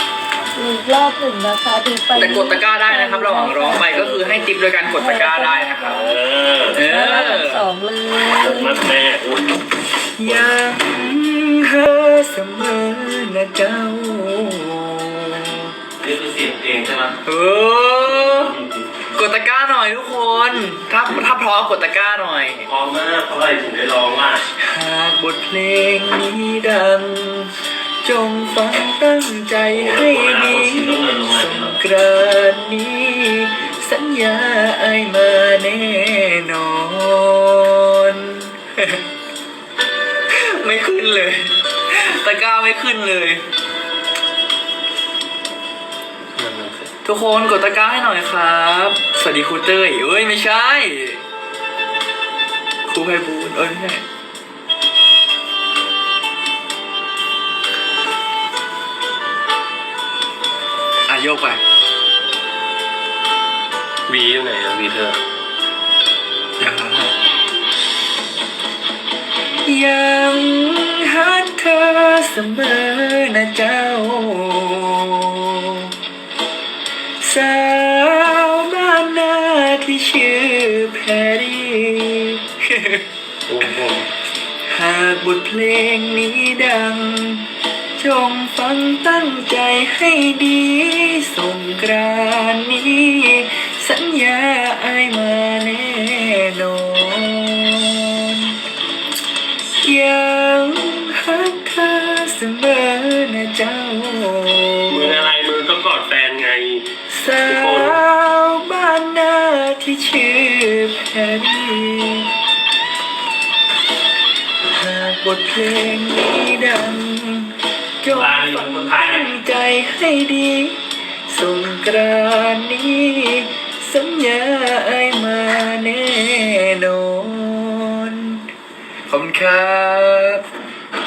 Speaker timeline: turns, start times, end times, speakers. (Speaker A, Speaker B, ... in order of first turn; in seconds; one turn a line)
Speaker A: 0.5-8.9
Speaker B: 2.1-6.1
Speaker C: 5.9-6.8
Speaker B: 6.7-7.7
Speaker C: 8.4-9.6
Speaker B: 10.2-15.8
Speaker C: 16.0-17.1
Speaker B: 17.2-18.6
Speaker C: 18.3-18.8
Speaker B: 19.1-22.7
Speaker C: 22.6-24.4
Speaker B: 24.6-39.0
Speaker C: 29.7-31.7
Speaker B: 40.3-43.5
Speaker C: 46.4-46.9
Speaker B: 47.0-51.2
Speaker B: 52.9-54.0
Speaker B: 61.1-61.6
Speaker C: 64.1-65.2
Speaker B: 66.6-67.2
Speaker B: 69.6-76.0
Speaker B: 77.2-83.0
Speaker C: 83.5-84.1
Speaker B: 84.7-98.6
Speaker B: 99.8-105.1
Speaker C: 104.9-106.9
Speaker B: 107.1-112.3
Speaker C: 107.4-108.0
Speaker B: 114.7-128.5
Speaker C: 118.0-119.3
Speaker B: 129.1-130.4